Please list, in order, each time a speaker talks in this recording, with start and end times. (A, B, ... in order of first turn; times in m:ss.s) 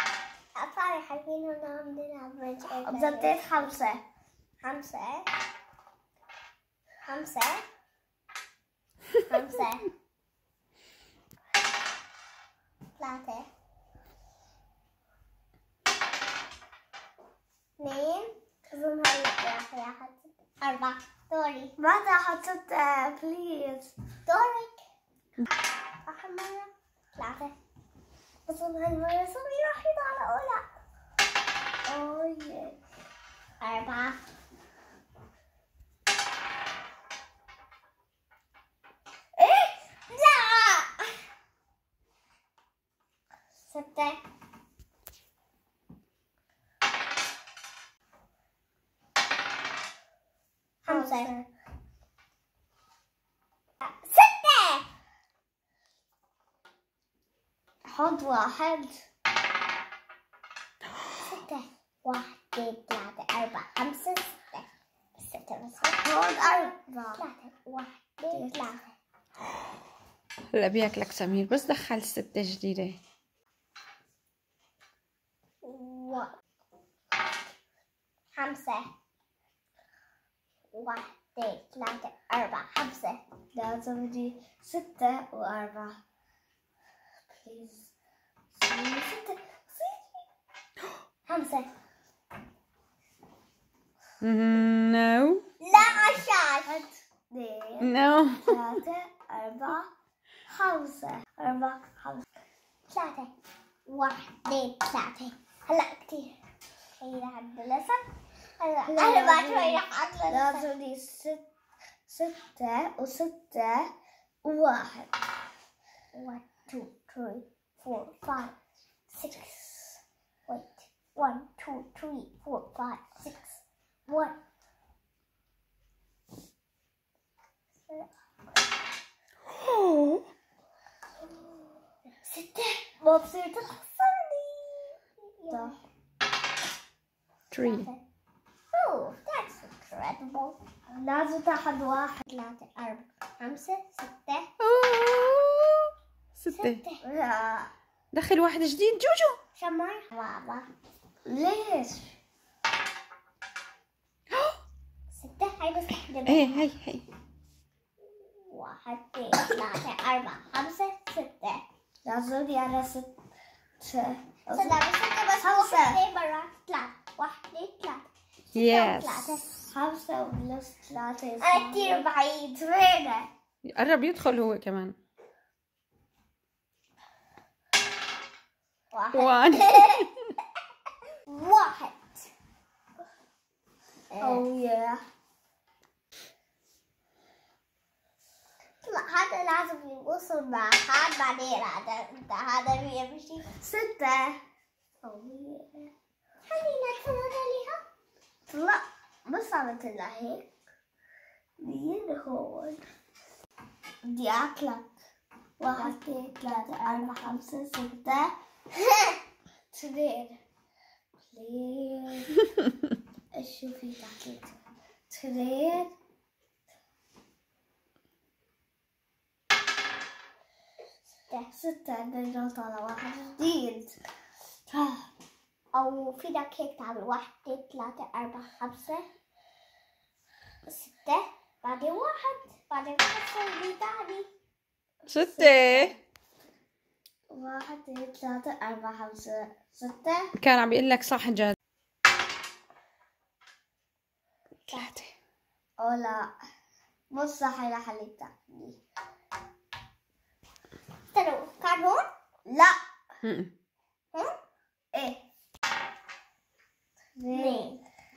0:00.5-0:03.7 A
0:02.7-0:04.0 B
0:04.6-0:05.3 A
0:07.0-0:07.6 A
0:09.2-0:09.9 A
0:13.0-0:13.5 A
0:17.8-0:21.7 A
0:21.8-0:23.9 B
0:24.2-0:24.7 A
0:26.0-0:27.5 A
0:28.4-0:30.7 A
0:31.8-0:32.8 B
0:33.6-0:34.2 A
0:39.4-0:39.7 B
0:40.1-0:41.1 A
0:43.7-0:44.2 A
0:50.8-0:51.4 A
0:50.8-0:51.4 B
0:53.8-0:54.9 A
0:57.8-0:59.0 B
1:01.2-1:06.1 A
1:06.0-1:07.2 B
1:07.1-1:08.9 A
1:08.3-1:08.6 B
1:10.5-1:13.0 C
1:15.6-1:16.3 A
1:18.3-1:18.9 A
1:20.7-1:23.2 A
1:23.5-1:26.0 B
1:27.3-1:27.9 B
1:28.5-1:30.0 B
1:31.2-1:31.7 A
1:34.2-1:35.4 C
1:35.6-1:36.8 A
1:36.6-1:39.9 B
1:37.8-1:38.6 C
1:40.5-1:42.2 B
1:42.9-1:43.3 A
1:43.8-1:46.3 A
1:47.0-1:48.0 A
1:48.6-1:50.7 A
1:48.8-1:51.4 B
1:52.1-1:53.9 B
1:54.4-1:55.1 B
1:56.1-1:58.5 A
1:59.1-2:04.4 A
2:09.5-2:10.2 C
2:12.2-2:15.8 A
2:15.5-2:15.8 B
2:17.5-2:17.9 C
2:17.5-2:18.0 A
2:18.7-2:20.6 A
2:20.9-2:22.2 B
2:22.2-2:24.5 A
2:24.6-2:26.8 C
2:26.5-2:27.0 A
2:27.0-2:27.7 B
2:28.1-2:29.4 C
2:29.5-2:30.7 A
2:31.2-2:32.2 B
2:34.3-2:34.6 C
2:35.1-2:36.7 A
2:36.2-2:37.0 C
2:38.1-2:41.6 A
2:42.0-2:43.1 B
2:43.8-2:44.8 B
2:44.5-2:49.5 A
2:45.3-2:46.0 B
2:48.5-2:49.4 C
2:49.7-2:52.1 B
2:51.4-2:53.3 A
2:53.6-2:54.9 C
2:58.9-3:00.1 A
2:59.1-3:00.1 C
3:01.3-3:02.3 A
3:04.1-3:04.4 A
3:04.2-3:05.0 B
3:08.8-3:13.5 A
3:13.6-3:14.4 B
3:15.0-3:15.9 B
3:16.4-3:17.8 A
3:18.5-3:20.5 B
3:21.6-3:22.8 B
3:24.0-3:24.9 B
3:25.6-3:28.3 B
3:25.7-3:27.4 A
3:28.7-3:29.2 A
3:29.7-3:30.4 B
3:31.2-3:32.4 B
3:33.3-3:35.9 B
3:41.5-3:44.0 B
3:44.7-3:45.1 B
3:45.7-3:49.0 A
3:50.6-3:54.3 A
3:55.0-3:56.0 B
3:55.1-3:56.0 C
3:57.3-4:00.3 B
4:00.4-4:01.5 C
4:04.7-4:05.0 A
4:04.7-4:05.1 C
4:05.8-4:06.3 B
4:07.1-4:08.8 B
4:11.1-4:12.1 A
4:12.4-4:12.8 B
4:13.2-4:13.5 C
4:14.9-4:15.2 B
4:17.2-4:17.7 B
4:17.3-4:17.8 A